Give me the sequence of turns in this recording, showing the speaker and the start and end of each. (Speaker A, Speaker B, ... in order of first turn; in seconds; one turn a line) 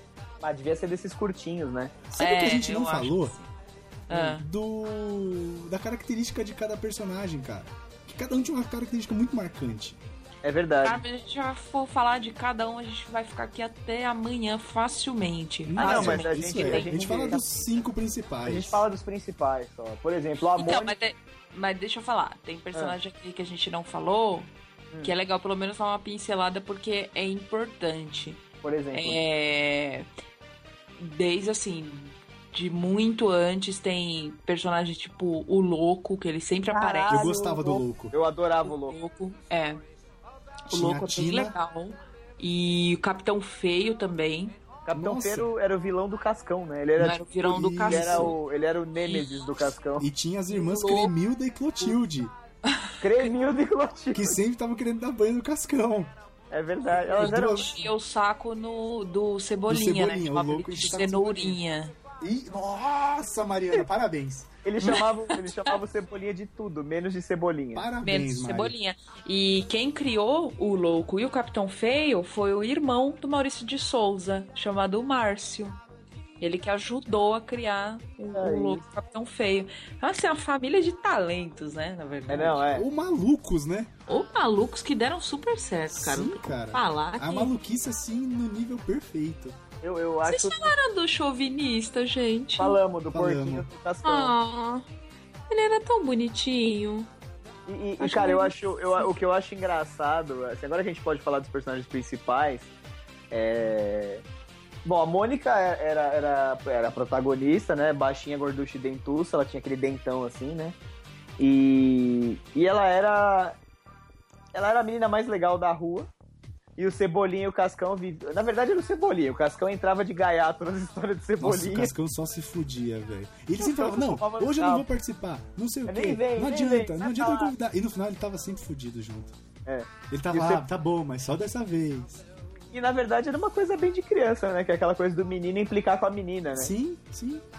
Speaker A: 0.4-1.9
Speaker B: 2.1-3.4
Speaker C: 2.2-3.5
Speaker C: 4.1-4.4
Speaker B: 4.1-10.0
Speaker A: 10.4-11.0
Speaker C: 10.8-17.1
Speaker B: 15.7-18.8
Speaker A: 15.8-17.8
Speaker A: 18.4-20.9
Speaker C: 20.5-24.5
Speaker C: 25.0-30.1
Speaker A: 28.6-29.2
Speaker C: 31.0-37.3
Speaker A: 36.7-39.0
Speaker B: 37.1-38.1
Speaker C: 38.6-39.8
Speaker B: 40.7-41.5
Speaker C: 40.7-44.6
Speaker A: 44.9-47.2
Speaker B: 44.9-45.5
Speaker C: 47.0-48.4
Speaker B: 47.4-48.3
Speaker A: 47.9-50.0
Speaker C: 49.0-49.5
Speaker B: 50.0-52.3
Speaker C: 50.5-51.1
Speaker C: 52.7-53.3
Speaker A: 53.0-54.4
Speaker B: 54.1-56.1
Speaker A: 56.5-57.7
Speaker C: 57.1-61.9
Speaker B: 57.2-57.9
Speaker B: 59.7-61.6
Speaker B: 62.2-64.5
Speaker A: 64.6-67.9
Speaker C: 64.8-65.8
Speaker B: 67.7-68.7
Speaker C: 68.0-75.8
Speaker C: 76.4-82.6
Speaker A: 78.3-78.8
Speaker A: 82.3-82.8
Speaker B: 82.7-83.9
Speaker C: 84.1-87.5
Speaker B: 85.9-89.6
Speaker A: 89.8-90.7
Speaker C: 90.3-92.8
Speaker A: 92.6-94.3
Speaker B: 93.1-93.7
Speaker C: 94.0-94.8
Speaker C: 95.5-97.1
Speaker A: 97.7-102.7
Speaker C: 98.0-99.1
Speaker A: 103.3-104.2
Speaker A: 104.8-110.8
Speaker A: 111.4-113.5
Speaker A: 114.5-116.1
Speaker A: 116.8-121.9
Speaker B: 121.4-129.4
Speaker A: 123.6-124.8
Speaker A: 125.9-127.5
Speaker A: 129.7-130.6
Speaker B: 130.1-132.2
Speaker A: 132.7-136.7
Speaker B: 136.6-137.4